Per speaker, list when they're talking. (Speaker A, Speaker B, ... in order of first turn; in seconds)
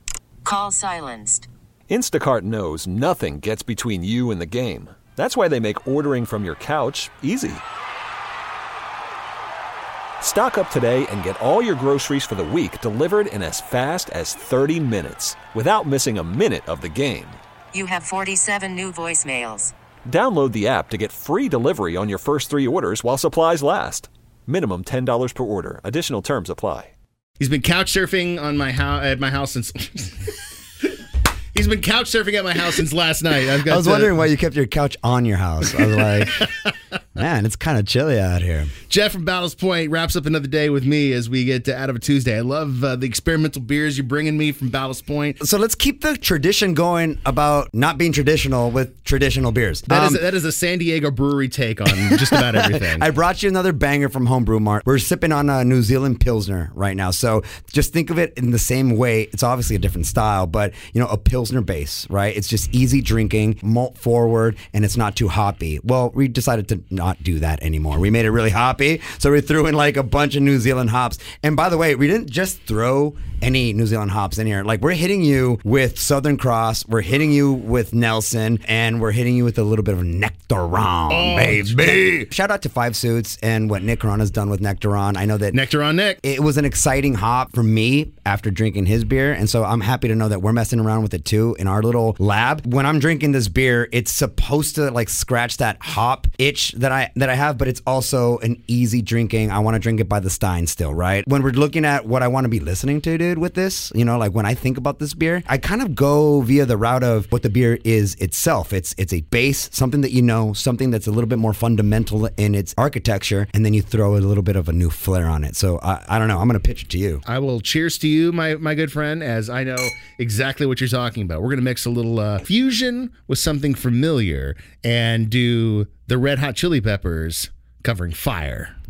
Speaker A: 0.4-1.5, 17.7-19.7
Speaker B: 1.9-7.6, 10.2-17.4, 20.1-26.9
Speaker C: 27.4-30.3, 31.5-34.1, 35.9-36.5, 38.9-45.4, 49.9-53.0, 81.1-82.2, 85.5-86.2, 117.2-128.7
Speaker D: 33.6-36.5, 37.1-38.7, 45.4-50.2, 52.5-85.6, 86.2-117.2